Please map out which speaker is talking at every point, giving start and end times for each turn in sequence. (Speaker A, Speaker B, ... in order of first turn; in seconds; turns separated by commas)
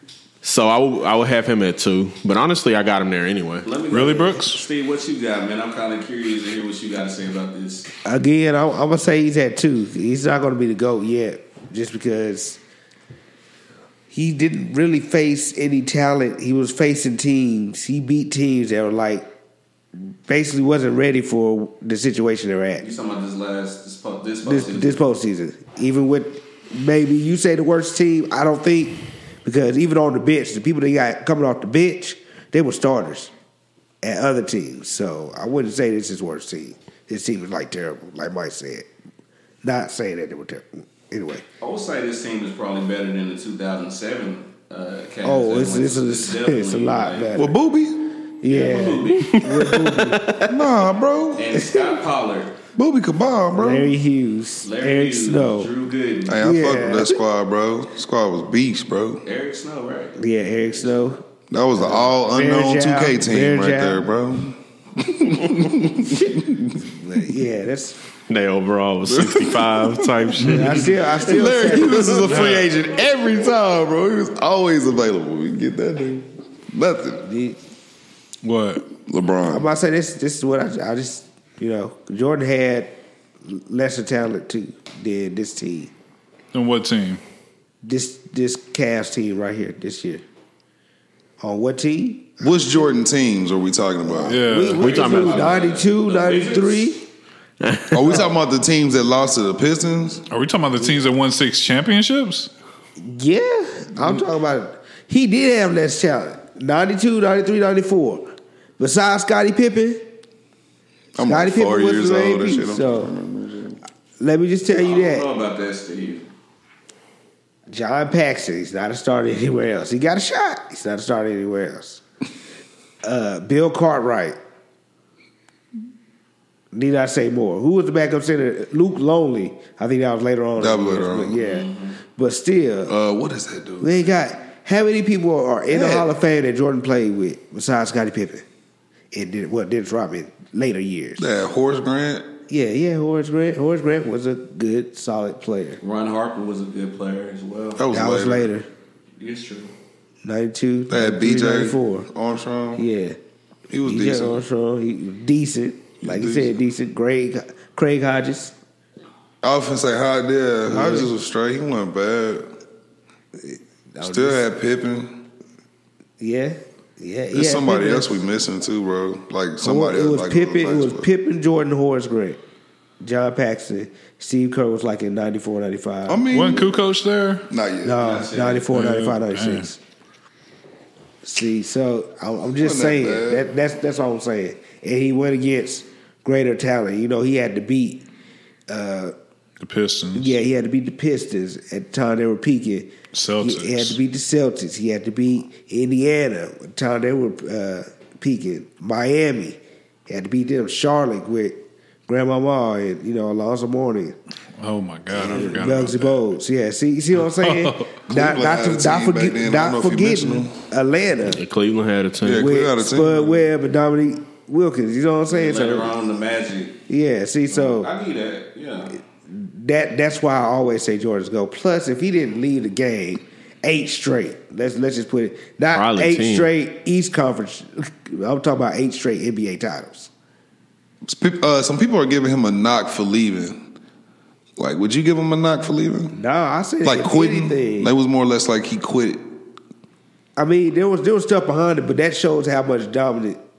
Speaker A: 0.4-3.7, Speaker B: 3.6-7.9, Speaker C: 3.9-4.6, Speaker D: 8.0-12.6, Speaker D: 14.1-19.3, Speaker D: 20.0-22.8, Speaker B: 22.8-25.0, Speaker D: 24.4-33.3, Speaker D: 34.0-38.9, Speaker D: 39.6-41.4, Speaker B: 41.6-47.4, Speaker D: 45.2-47.5, Speaker E: 47.3-48.1, Speaker D: 48.4-50.4, Speaker B: 48.5-49.9, Speaker A: 49.3-50.5, Speaker E: 50.5-51.6, Speaker B: 51.4-52.5, Speaker E: 52.8-54.0, Speaker D: 53.5-55.7, Speaker B: 54.6-56.5, Speaker E: 56.2-59.2, Speaker D: 56.4-57.2, Speaker B: 59.2-60.2, Speaker D: 60.2-61.2, Speaker E: 61.5-66.7, Speaker D: 61.8-64.1, Speaker D: 66.2-68.0, Speaker A: 68.3-71.0, Speaker E: 69.1-70.3, Speaker C: 70.4-70.8, Speaker D: 70.4-72.5, Speaker E: 71.1-77.3, Speaker C: 72.2-72.7, Speaker D: 77.2-77.6, Speaker C: 78.4-78.9, Speaker E: 79.0-79.7, Speaker D: 79.5-85.9, Speaker C: 86.5-87.2, Speaker D: 87.8-90.2, Speaker D: 91.4-92.7, Speaker E: 92.4-94.4, Speaker D: 94.0-97.0, Speaker C: 94.2-95.0, Speaker A: 94.8-95.7, Speaker B: 94.8-97.0, Speaker A: 97.6-97.9, Speaker E: 97.9-100.2, Speaker C: 100.3-102.5, Speaker D: 103.0-110.1, Speaker E: 111.2-113.8, Speaker D: 111.2-113.1, Speaker D: 114.2-115.3, Speaker B: 114.8-116.3, Speaker D: 117.7-122.0, Speaker D: 123.0-124.4, Speaker D: 126.7-132.9, Speaker E: 130.6-131.4, Speaker B: 131.4-132.0, Speaker E: 132.9-134.1, Speaker D: 133.8-138.4, Speaker E: 135.7-136.1, Speaker D: 139.1-141.3, Speaker E: 141.2-142.3, Speaker D: 142.5-145.8, Speaker B: 145.8-147.8, Speaker E: 147.8-148.5, Speaker D: 147.9-148.7, Speaker B: 149.2-149.7, Speaker D: 150.2-152.1, Speaker E: 150.9-152.8, Speaker D: 152.8-153.2, Speaker E: 153.7-154.4, Speaker D: 153.8-158.5, Speaker E: 156.0-156.6, Speaker E: 159.4-162.5, Speaker D: 160.7-161.1, Speaker D: 163.4-164.4, Speaker E: 164.0-165.2, Speaker D: 166.2-168.2, Speaker E: 167.3-171.1, Speaker D: 169.6-172.4, Speaker D: 173.0-176.4, Speaker E: 176.1-176.8, Speaker C: 176.3-177.5, Speaker E: 177.5-178.3, Speaker D: 177.8-179.8, Speaker B: 178.0-178.7, Speaker C: 178.7-179.7, Speaker D: 181.2-188.1, Speaker E: 182.6-183.5, Speaker D: 188.7-189.1, Speaker C: 189.6-190.3, Speaker D: 190.1-204.2, Speaker C: 193.1-194.0, Speaker C: 204.6-206.3, Speaker D: 205.1-211.4, Speaker C: 207.2-207.9, Speaker E: 208.1-210.6, Speaker A: 211.3-212.5, Speaker E: 212.2-213.5, Speaker D: 212.4-215.9, Speaker B: 215.3-216.8, Speaker D: 216.9-217.9, Speaker B: 217.5-219.0, Speaker D: 219.3-230.1, Speaker A: 225.7-226.5, Speaker E: 231.0-233.7, Speaker E: 234.6-236.2, Speaker D: 236.1-237.9, Speaker E: 236.8-239.2, Speaker D: 240.4-243.4